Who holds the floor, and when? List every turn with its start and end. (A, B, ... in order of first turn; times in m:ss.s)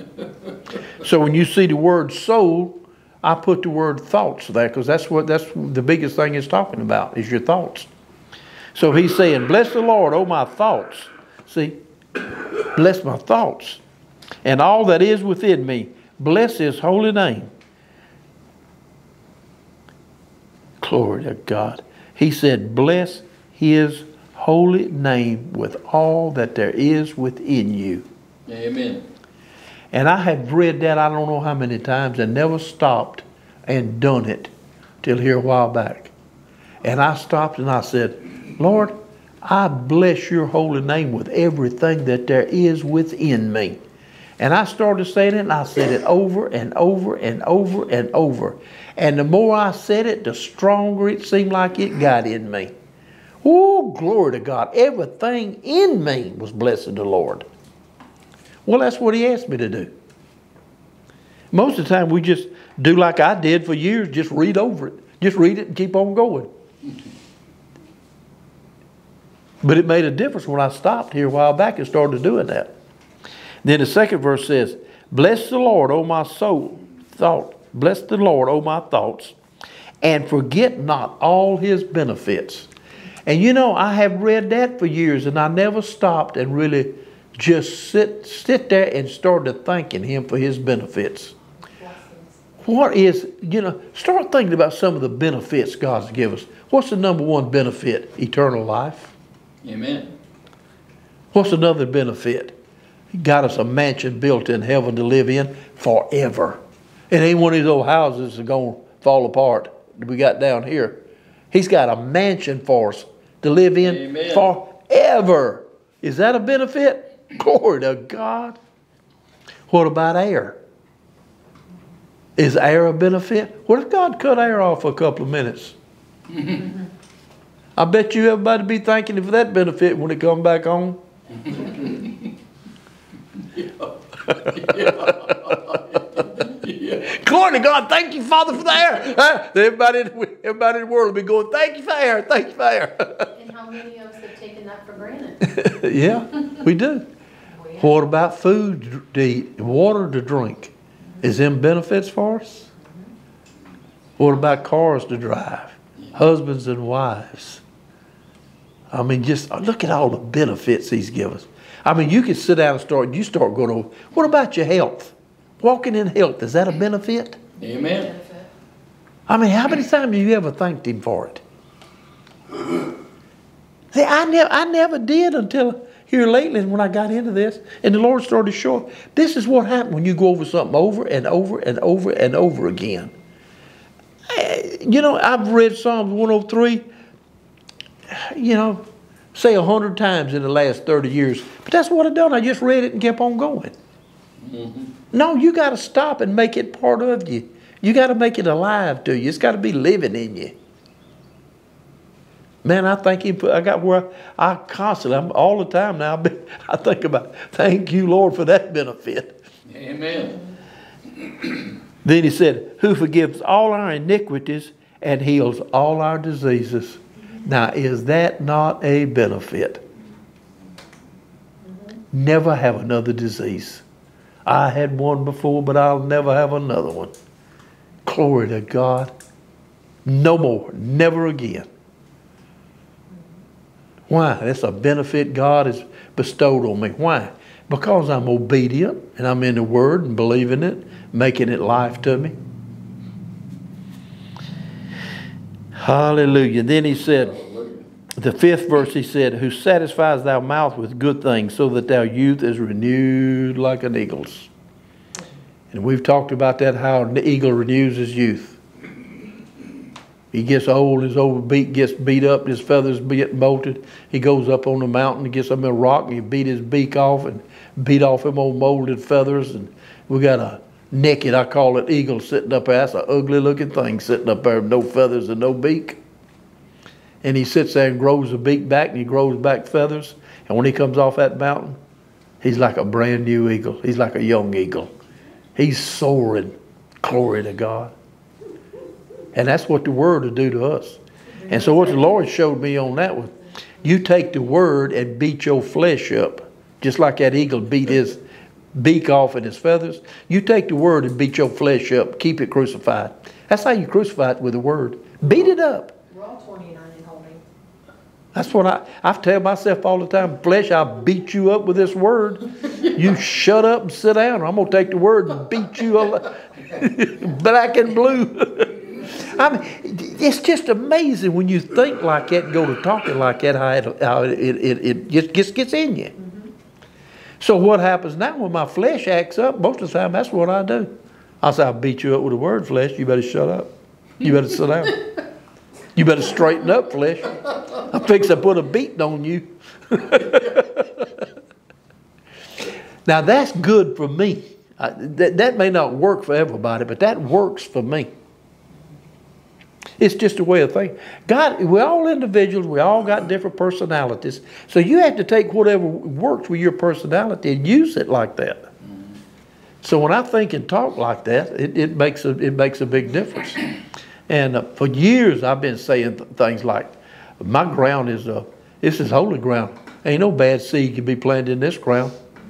0:01.0-0:07.9 A
0:08.7-0:11.8 A
0:12.7-0:13.8 A
0:14.4-0:17.5 A
0:20.8-0:28.0 A
0:28.5-0:29.1 B
0:29.9-0:34.5 A
0:35.0-0:36.1 A
0:36.8-0:43.8 A
0:44.4-0:52.7 A
0:53.4-0:57.4 A
0:58.6-0:59.9 A
1:01.5-1:06.5 A
1:09.6-1:12.7 A
1:13.6-1:19.4 A
1:20.0-1:22.7 A
1:23.2-1:31.3 A
1:31.6-1:32.4 C
1:32.6-1:39.1 A
1:39.6-1:40.1 B
1:41.3-1:42.6 A
1:43.1-1:46.6 A
1:47.1-1:58.6 A
1:53.8-1:54.5 B
1:59.7-2:00.6 A
2:02.4-2:05.8 A
2:07.8-2:11.0 A
2:11.3-2:12.3 B
2:13.4-2:17.1 B
2:14.3-2:15.3 A
2:17.0-2:23.3 A
2:23.3-2:25.5 C
2:25.4-2:27.0 A
2:27.6-2:27.8 C
2:27.8-2:32.7 A
2:34.2-2:37.6 A
2:38.9-2:47.4 A
2:47.6-2:48.1 B
2:48.0-2:48.5 C
2:49.3-2:51.4 A
2:53.9-3:03.1 A
3:04.3-3:06.9 A
3:08.1-3:13.7 A
3:14.4-3:14.9 B
3:15.1-3:20.5 A
3:22.6-3:29.4 A
3:29.6-3:30.4 B
3:31.1-3:31.7 B
3:32.0-3:39.8 A
3:42.1-3:43.8 A
3:44.4-3:47.1 A
3:48.0-3:49.1 A
3:50.0-3:51.7 A
3:54.1-4:02.3 A
4:05.7-4:07.4 A
4:07.1-4:07.9 B
4:08.2-4:14.5 A
4:15.7-4:18.6 A
4:20.3-4:36.0 A
4:37.2-4:41.8 A
4:42.4-4:44.9 A
4:45.6-4:47.9 A
4:49.3-4:58.2 A
4:51.5-4:52.0 C
4:58.7-5:05.9 A
5:06.1-5:07.4 C
5:08.3-5:26.1 A
5:27.4-5:35.0 A
5:36.0-5:41.0 A
5:43.0-5:48.1 A
5:50.0-5:58.7 A
5:59.8-6:03.7 A
6:04.3-6:12.1 A